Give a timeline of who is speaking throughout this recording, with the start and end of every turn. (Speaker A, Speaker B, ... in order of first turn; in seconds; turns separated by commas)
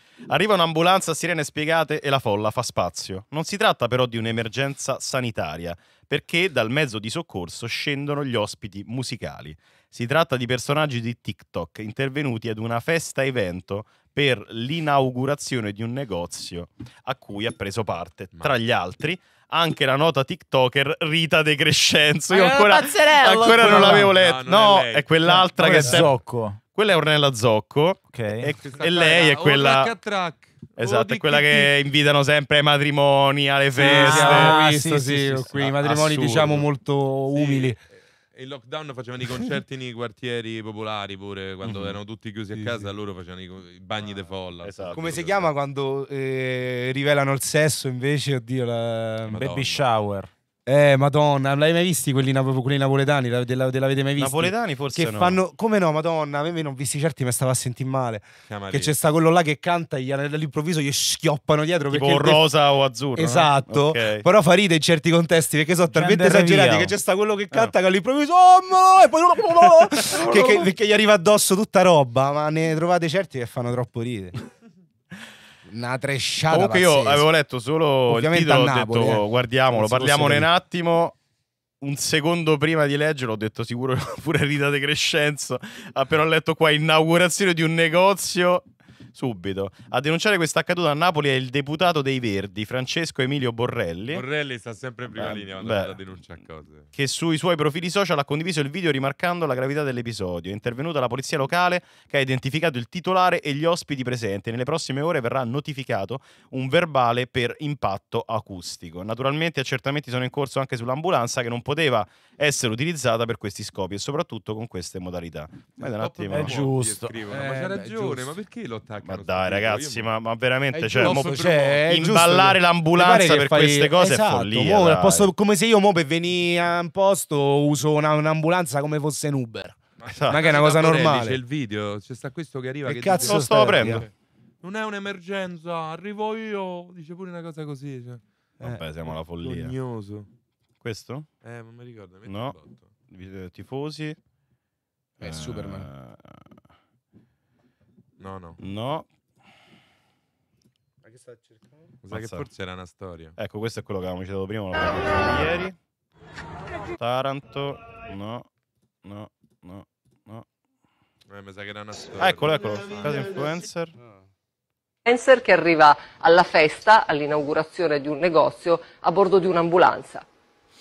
Speaker A: 0.3-29.9, Speaker B: 22.3-24.1, Speaker C: 23.5-25.1, Speaker B: 25.2-26.6, Speaker B: 28.1-28.5, Speaker C: 28.6-31.7, Speaker A: 30.8-34.6, Speaker D: 33.8-37.8, Speaker B: 33.8-35.5, Speaker A: 35.5-36.6, Speaker C: 37.3-37.8, Speaker C: 38.3-45.5, Speaker A: 41.6-42.0, Speaker A: 44.6-45.2, Speaker D: 44.9-49.4, Speaker C: 49.3-49.8, Speaker B: 49.4-50.3, Speaker D: 50.7-62.4, Speaker A: 54.2-55.4, Speaker C: 58.5-58.9, Speaker A: 61.9-64.2, Speaker D: 63.2-74.3, Speaker B: 65.9-66.9, Speaker A: 70.0-70.5, Speaker D: 75.7-77.3, Speaker A: 76.5-81.2, Speaker D: 78.1-80.5, Speaker A: 81.8-94.2, Speaker C: 94.1-96.9, Speaker A: 95.1-96.0, Speaker A: 96.9-116.7, Speaker C: 115.8-120.1, Speaker B: 116.3-117.2, Speaker D: 117.3-118.3, Speaker A: 119.0-125.3, Speaker D: 120.7-129.8, Speaker C: 121.0-121.8, Speaker C: 130.0-138.2, Speaker A: 130.1-130.4, Speaker D: 130.3-131.4, Speaker D: 132.9-134.1, Speaker A: 133.2-134.1, Speaker A: 138.6-139.8, Speaker C: 139.1-140.3, Speaker A: 140.8-141.3, Speaker C: 141.4-142.9, Speaker A: 142.3-142.6, Speaker A: 143.1-144.2, Speaker A: 145.2-146.4, Speaker D: 145.2-145.9, Speaker C: 148.2-148.6, Speaker A: 148.6-149.1, Speaker D: 151.1-151.9, Speaker C: 152.0-153.4, Speaker A: 152.1-152.5, Speaker A: 153.4-155.8, Speaker A: 157.0-158.4, Speaker A: 159.0-160.4, Speaker C: 161.3-163.4, Speaker A: 162.2-163.9, Speaker E: 165.1-170.2